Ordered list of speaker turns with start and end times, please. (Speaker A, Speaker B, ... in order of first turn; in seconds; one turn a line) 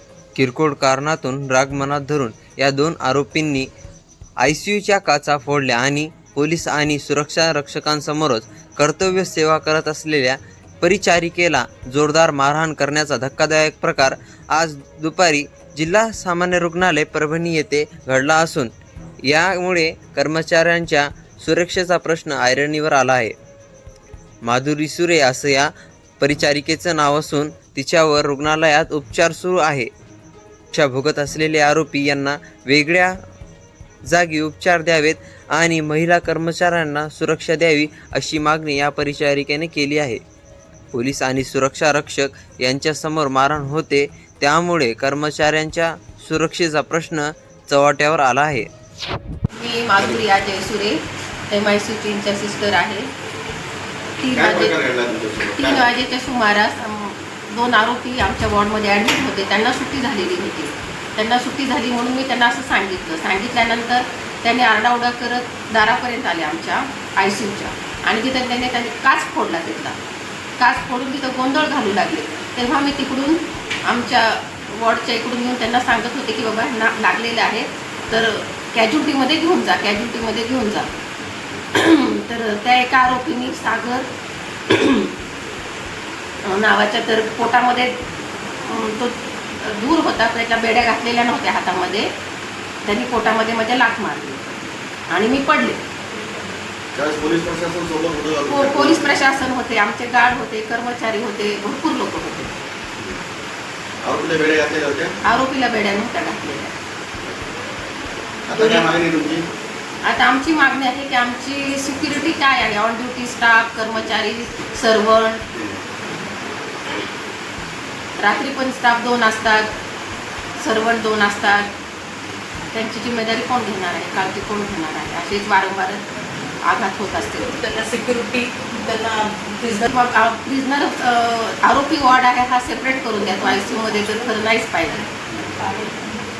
Speaker A: 0.3-3.7
Speaker A: 4.4-23.3
Speaker A: 24.4-29.9
Speaker A: 30.7-33.2
Speaker A: 34.0-40.2
Speaker A: 40.9-48.7
Speaker B: 49.5-53.1
Speaker B: 54.2-54.8
Speaker C: 54.3-55.9
Speaker B: 55.5-70.0
Speaker B: 70.6-80.9
Speaker B: 81.7-84.1
Speaker B: 84.7-85.1
Speaker B: 86.4-87.9
Speaker B: 88.6-92.1
Speaker B: 92.8-95.8
Speaker C: 96.9-99.1
Speaker B: 98.5-102.5
Speaker C: 104.0-105.2
Speaker B: 105.2-106.7
Speaker C: 108.5-109.4
Speaker B: 108.5-108.9
Speaker B: 110.0-115.4
Speaker C: 115.5-115.8
Speaker B: 118.2-119.7
Speaker B: 120.6-121.7
Speaker B: 122.7-126.0
Speaker B: 126.6-127.6
Speaker D: 127.5-129.8
Speaker B: 129.7-135.1
Speaker D: 135.6-135.9